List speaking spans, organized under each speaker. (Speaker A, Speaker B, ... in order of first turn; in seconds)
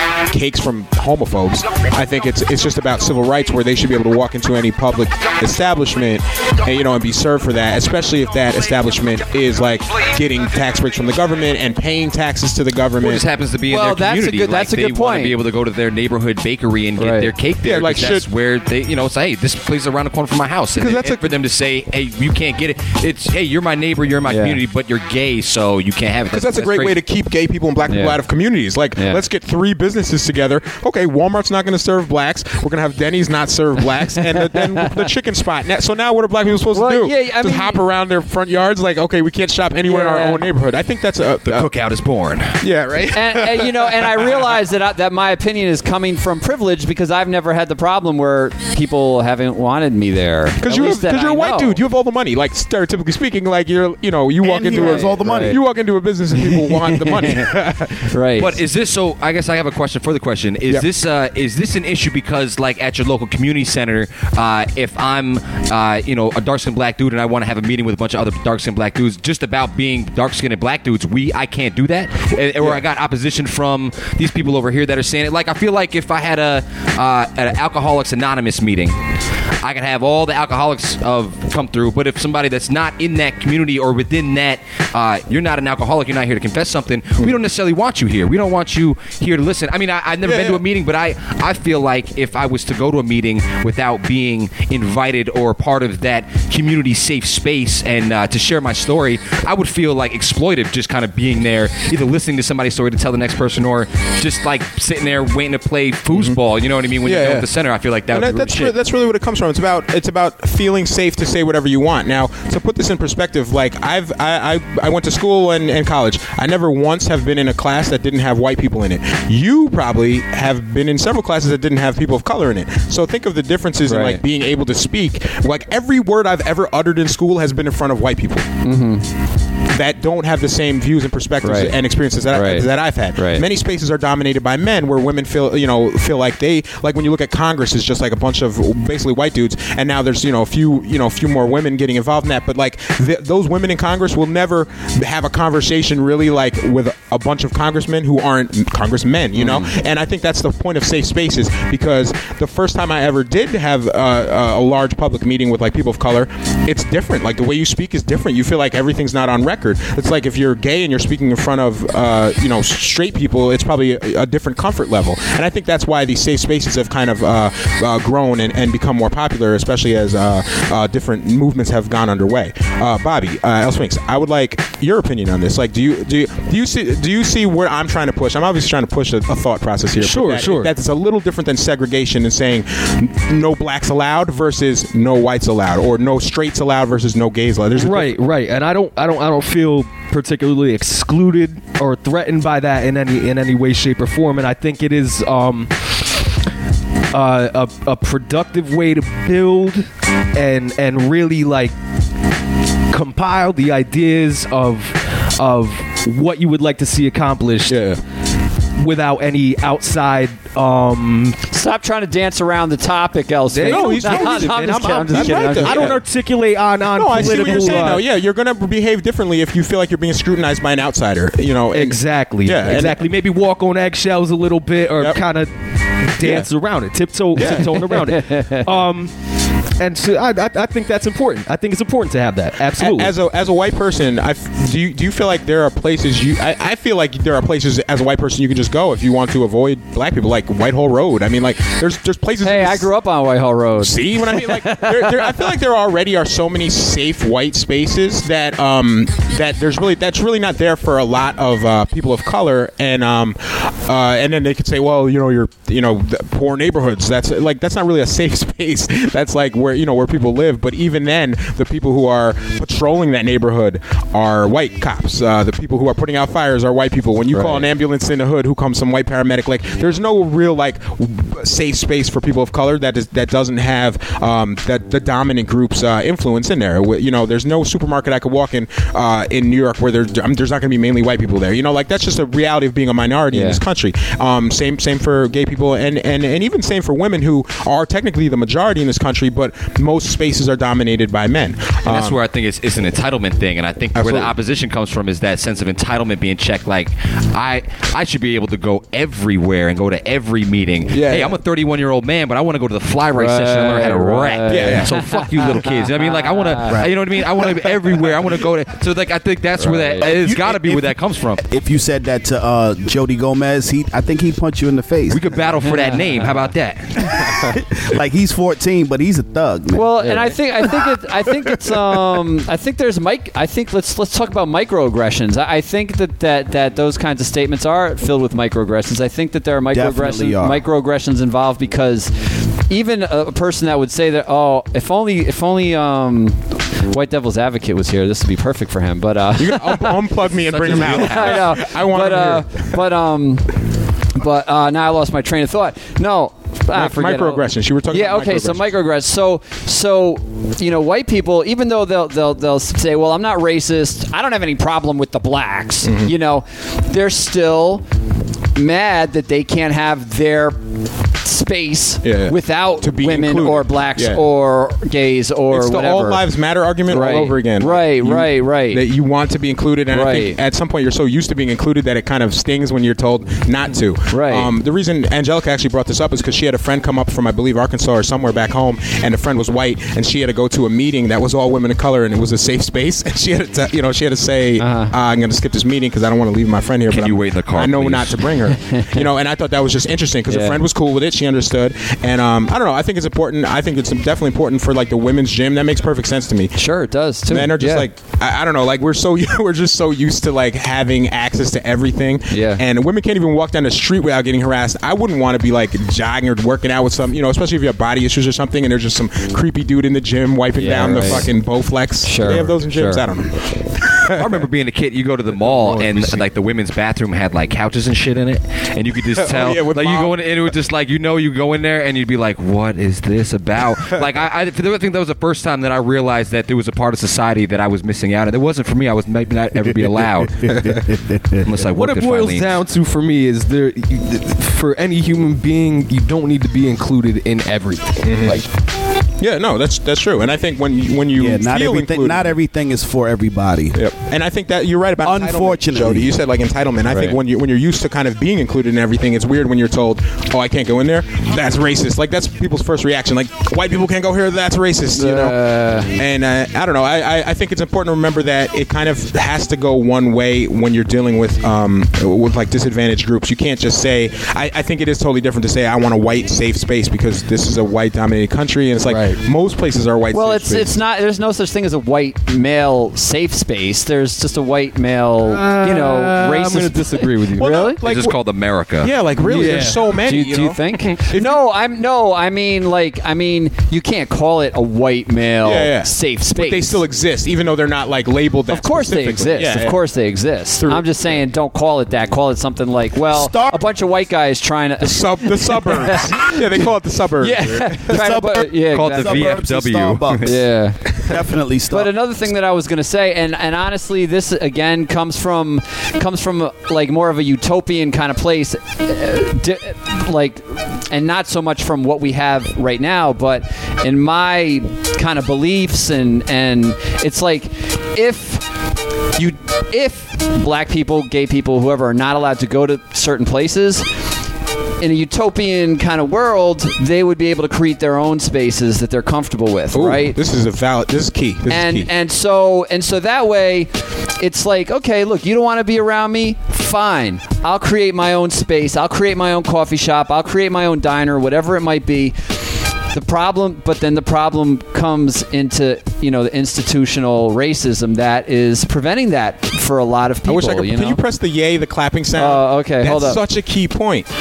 Speaker A: 0.3-13.3, 17.6-18.3, 20.8-21.3, 26.3-41.7, 42.6-44.5, 50.6-58.1, 72.6-72.8, 90.2-90.6, 106.1-106.4, 107.0-107.5, 108.1-128.5, 129.7-188.2, 207.7-208.0, 213.7-216.0, 216.9-223.0, 226.2-226.5, 227.4-227.9, 232.8-242.9, 243.8-292.2, 294.0-294.3, 300.9-301.4, 304.5-304.9, 339.4-342.7, 346.7-348.7, 355.8-356.1, 362.0-364.2, 365.5-396.6, 397.3-414.5, 415.4-416.3, 419.1-420.2, 438.0-438.4, 439.2-442.3, 443.8-470.8, 477.4-478.2, 478.8-480.6, 481.1-481.4, 485.4-489.8, 490.6-490.9, 494.8-498.0, 529.7-531.9, 550.3-554.1
Speaker B: 13.0-27.0, 41.5-42.6, 58.4-79.0, 79.6-108.8, 291.9-311.4, 315.1-316.9, 340.5-341.6, 386.9-388.2, 414.1-430.6, 431.4-432.5, 477.8-478.9, 498.6-500.3
Speaker C: 13.7-15.4, 17.0-17.3, 24.3-24.6, 27.9-28.2, 29.0-29.2, 34.5-34.9, 36.7-37.8, 39.9-40.4, 43.1-51.8, 54.7-55.6, 56.4-57.5, 58.1-58.6, 123.9-124.2, 128.6-129.1, 131.4-131.8, 132.3-133.4, 149.3-149.7, 211.5-216.0, 217.2-217.9, 228.1-228.6, 242.4-245.5, 267.3-267.7, 283.3-283.6, 303.1-306.8, 309.6-310.1, 315.6-316.5, 319.8-339.9, 340.7-343.5, 344.1-357.9, 358.6-360.6, 361.2-366.2, 366.9-368.8, 369.9-370.4, 374.1-374.5, 384.6-384.9, 388.5-389.0, 390.3-390.6, 396.6-397.9, 402.3-402.6, 410.6-411.3, 412.0-413.0, 446.9-447.2, 454.9-455.9, 470.1-477.8, 480.0-486.8, 488.5-496.4, 497.2-499.4, 500.2-500.8, 501.7-518.4, 519.1-523.9, 524.8-530.1, 531.5-542.1, 542.9-551.0, 552.1-553.2
Speaker D: 54.4-55.6, 310.0-315.5, 317.1-320.1, 329.7-330.6, 430.4-431.5, 441.1-443.8, 445.0-446.1, 493.0-493.6, 497.9-500.4, 501.1-501.9
Speaker E: 180.0-180.7, 187.8-195.7, 197.1-201.8, 202.9-207.8, 208.8-211.4, 213.5-218.1, 221.7-225.5, 226.0-229.1, 229.8-233.1, 431.6-438.4, 468.9-469.2, 475.3-477.6, 479.2-479.8